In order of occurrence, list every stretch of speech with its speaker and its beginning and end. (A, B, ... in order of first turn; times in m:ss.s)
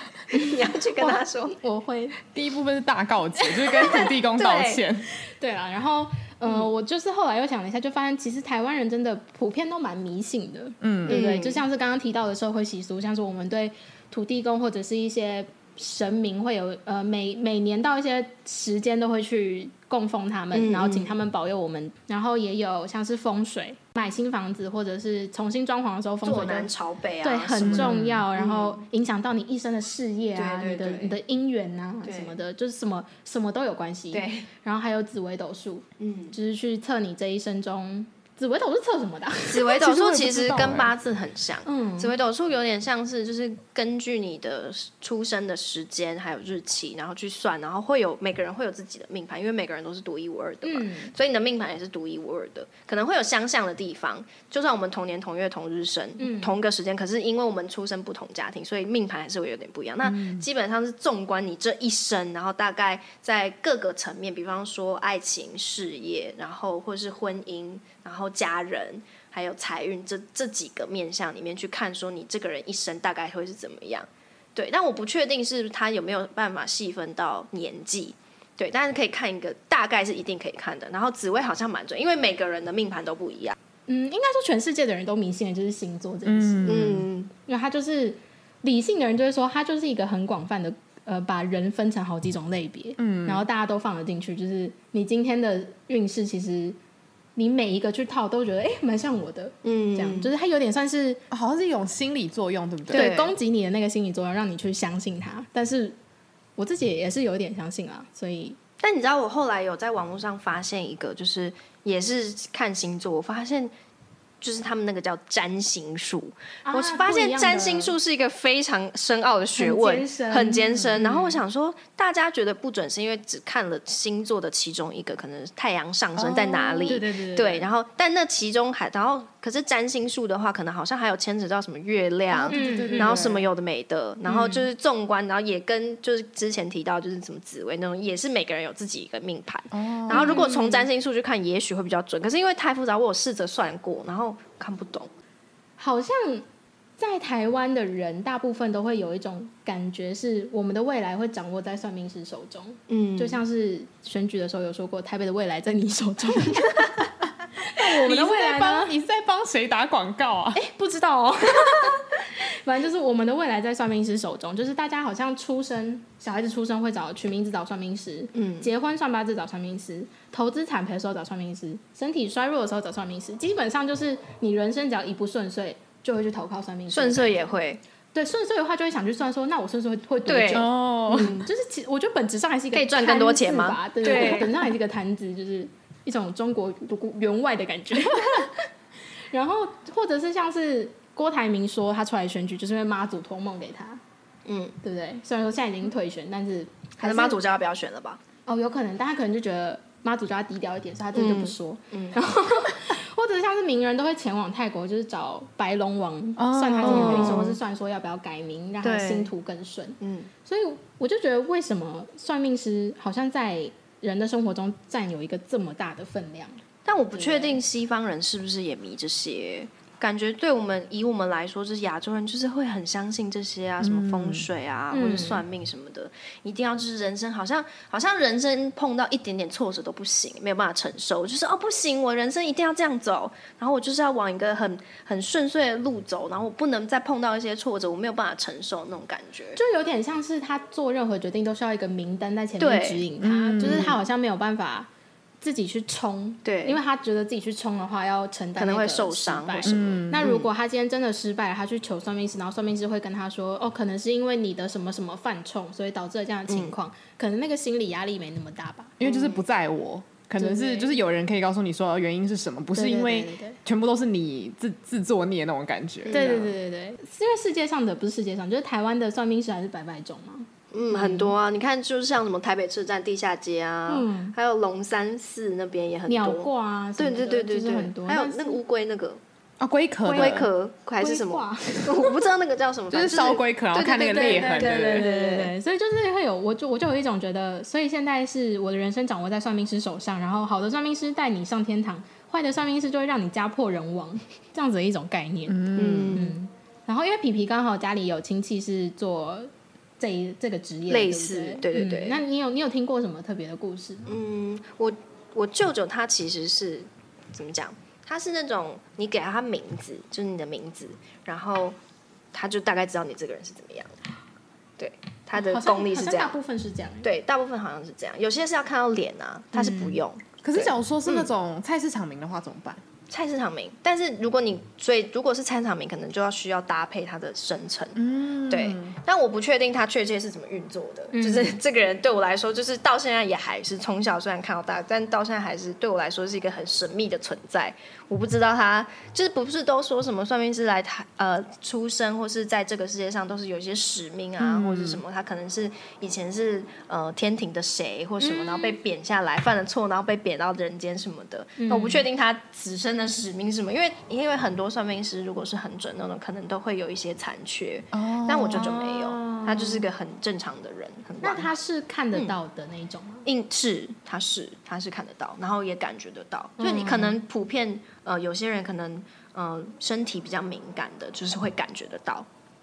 0:00.3-0:01.6 A
0:00.3-0:02.2 B
0:02.3-0:05.1 C
0:03.4-0:04.0 B
0:03.7-0:04.8 A
0:05.3-0:26.7 B
0:10.8-0:11.2 C
0:11.1-0:11.6 A
0:20.5-0:21.1 A
0:26.2-0:28.8 A
0:27.2-0:39.8 B
0:27.6-0:28.2 C
0:30.3-0:31.2 A
0:32.0-0:32.4 A
0:34.1-0:34.5 A
0:36.0-0:36.4 A
0:39.5-1:23.6 A
0:39.8-0:40.9 C
0:41.6-0:42.1 B
0:50.6-0:51.1 B
0:56.2-0:56.5 B
1:00.0-1:00.4 C
1:23.9-1:36.8 B
1:26.2-1:27.1 C
1:26.6-1:27.3 A
1:33.0-1:33.4 C
1:37.4-1:41.2 B
1:39.6-1:40.3 A
1:41.3-1:43.1 C
1:42.9-1:46.0 B
1:42.9-1:43.3 A
1:46.6-1:48.6 B
1:48.8-1:53.7 A
1:54.4-2:25.1 A
1:56.6-1:57.9 B
1:59.6-2:01.3 B
2:06.2-2:07.0 C
2:06.9-2:07.7 B
2:12.4-2:13.5 C
2:12.5-2:13.2 B
2:14.3-2:14.6 B
2:19.7-2:20.4 C
2:20.1-2:20.9 B
2:25.8-2:26.4 B
2:27.0-2:36.9 B
2:32.9-2:33.4 A
2:37.6-2:38.9 B
2:37.8-2:40.6 C
2:40.5-2:57.4 B
2:48.3-2:48.7 A
2:56.9-2:57.8 A
2:58.1-3:08.6 B
3:00.2-3:00.7 A
3:00.5-3:01.4 C
3:01.2-3:01.4 A
3:02.7-3:04.6 A
3:09.3-3:14.0 B
3:14.4-3:14.8 A
3:14.8-3:17.4 B
3:17.0-3:18.2 A
3:18.5-3:36.6 B
3:21.1-3:22.2 A
3:26.4-3:27.5 C
3:26.8-3:27.6 A
3:28.8-3:29.3 A
3:30.0-3:30.3 A
3:36.8-3:59.6 A
3:37.1-3:37.6 B
3:43.8-3:44.5 C
3:44.9-3:45.4 B
3:59.6-4:04.9 B
4:02.6-4:03.1 A
4:03.2-4:03.9 C
4:03.6-4:04.0 A
4:05.4-4:19.0 B
4:06.4-4:06.8 A
4:08.6-4:10.5 A
4:09.6-4:10.3 C
4:16.5-4:16.7 A
4:19.0-4:26.4 C
4:19.0-4:19.4 A
4:20.4-4:20.9 B
4:22.7-4:23.6 B
4:26.0-4:26.5 A
4:26.1-4:31.3 B
4:30.7-4:39.2 A
4:33.9-4:34.3 B
4:36.1-4:38.6 B
4:39.6-4:40.5 C
4:40.0-4:40.4 B
4:40.1-4:45.5 A
4:41.0-4:42.2 B
4:42.9-4:45.1 C
4:44.0-5:04.2 B
4:55.5-4:56.2 C
4:55.8-4:56.4 A
5:00.9-5:02.2 A
5:04.1-5:11.8 A
5:12.3-5:13.9 A
5:14.8-5:16.3 A
5:15.4-5:17.1 B
5:17.0-5:21.3 A
5:19.5-5:20.0 B
5:20.4-5:22.8 C
5:23.1-6:01.5 A
5:27.9-5:29.0 C
5:31.1-5:31.6 B
5:44.4-5:45.0 C
5:48.2-5:48.8 B
5:51.6-5:52.0 B
5:57.9-5:58.9 C
5:58.6-5:59.8 B
6:01.2-6:03.2 B
6:03.2-6:12.2 A
6:06.6-6:07.2 B